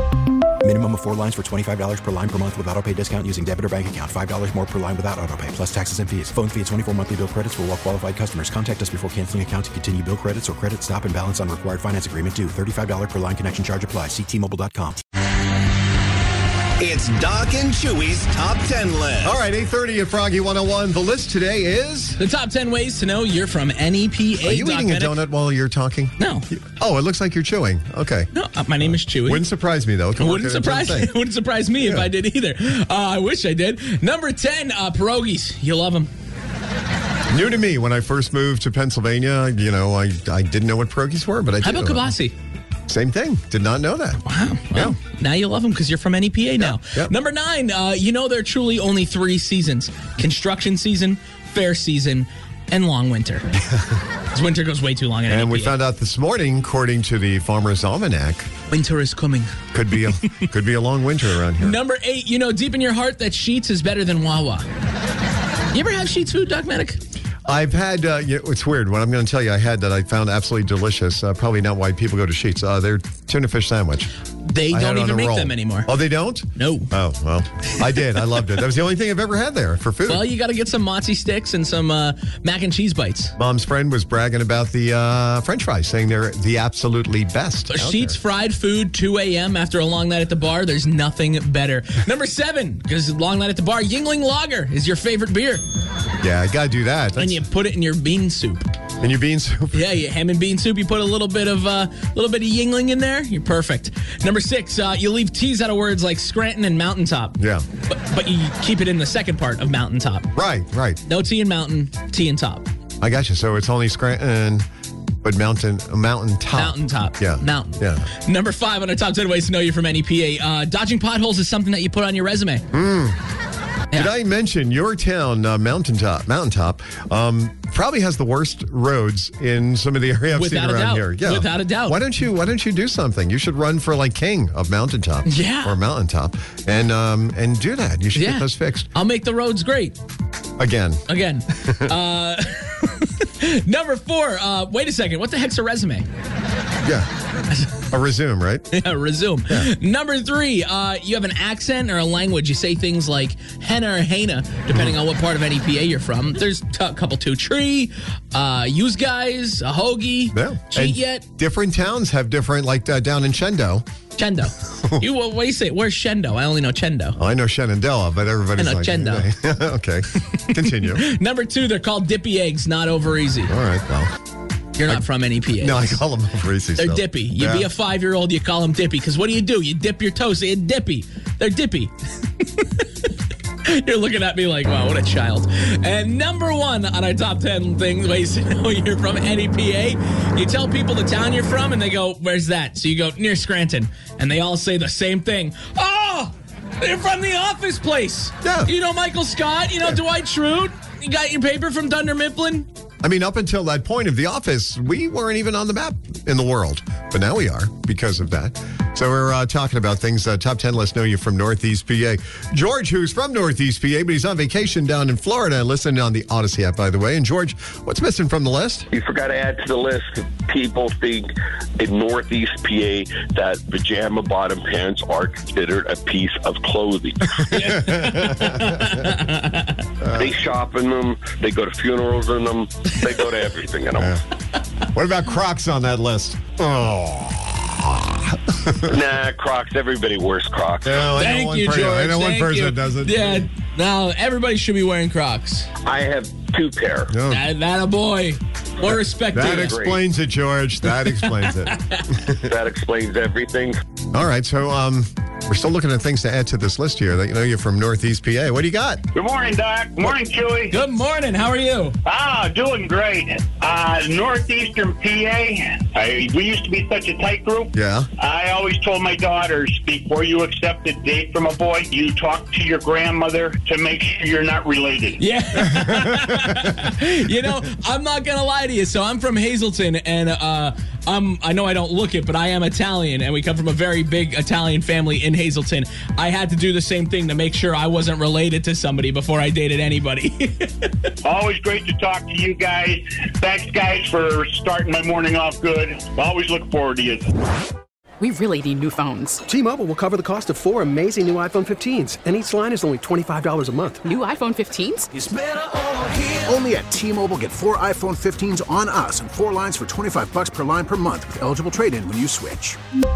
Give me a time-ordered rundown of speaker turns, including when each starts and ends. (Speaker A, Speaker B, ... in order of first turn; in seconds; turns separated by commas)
Speaker A: 0.6-15.0, Speaker B: 17.1-19.1, Speaker C: 19.2-22.2, Speaker D: 22.2-25.2, Speaker C: 24.4-28.3, Speaker D: 26.2-26.5, Speaker D: 28.3-29.5, Speaker C: 28.8-31.1, Speaker D: 30.2-36.1, Speaker C: 31.8-32.1, Speaker C: 37.3-42.1, Speaker D: 41.6-42.3, Speaker C: 42.9-45.0, Speaker D: 44.2-53.5, Speaker C: 46.6-47.1, Speaker C: 53.7-54.0, Speaker D: 54.3-55.8, Speaker C: 55.3-58.5, Speaker D: 58.7-60.2, Speaker C: 59.7-61.8, Speaker D: 61.5-64.7, Speaker D: 65.7-67.0, Speaker C: 67.4-74.1, Speaker D: 74.4-75.9, Speaker C: 74.7-80.3, Speaker D: 76.6-76.9, Speaker D: 80.1-83.3, Speaker C: 83.4-88.2, Speaker D: 87.7-95.6, Speaker C: 96.2-97.4, Speaker D: 97.2-98.7, Speaker C: 99.0-99.8, Speaker D: 99.7-107.3, Speaker C: 107.4-107.7, Speaker D: 107.9-110.3, Speaker C: 110.3-111.0, Speaker D: 111.1-112.7, Speaker C: 113.0-114.6, Speaker C: 115.2-118.1, Speaker D: 116.5-122.6, Speaker C: 122.7-123.2, Speaker C: 123.9-138.9, Speaker D: 130.3-132.0, Speaker D: 135.2-135.8, Speaker D: 138.1-140.0, Speaker C: 140.6-141.0, Speaker D: 141.1-146.1, Speaker C: 141.7-141.9, Speaker C: 146.8-147.1, Speaker D: 147.5-147.8, Speaker C: 147.9-148.7, Speaker D: 148.7-161.2, Speaker C: 160.3-163.8, Speaker D: 164.2-167.2, Speaker C: 167.2-171.0, Speaker D: 168.6-169.3, Speaker D: 170.6-173.5, Speaker C: 173.5-174.1, Speaker D: 174.8-176.0, Speaker C: 174.9-177.7, Speaker D: 176.8-183.1, Speaker D: 183.6-202.7, Speaker C: 198.4-198.7, Speaker C: 203.0-218.8, Speaker E: 218.9-227.4, Speaker D: 227.5-229.8, Speaker C: 227.5-228.9, Speaker C: 230.0-230.3, Speaker E: 230.1-234.1, Speaker C: 234.9-239.0, Speaker E: 238.9-241.1, Speaker C: 240.8-243.5, Speaker D: 241.1-245.7, Speaker E: 245.8-247.1, Speaker C: 247.1-247.4, Speaker D: 247.3-249.8, Speaker C: 248.9-252.4, Speaker E: 249.3-250.0, Speaker D: 251.1-252.0, Speaker E: 252.4-253.8, Speaker C: 254.1-259.0, Speaker F: 259.1-260.8, Speaker D: 260.7-262.0, Speaker F: 262.0-275.2, Speaker C: 267.8-268.1, Speaker D: 275.2-291.1, Speaker F: 291.2-297.2, Speaker G: 298.2-299.4, Speaker H: 299.5-304.0, Speaker G: 304.0-305.1, Speaker I: 305.1-312.8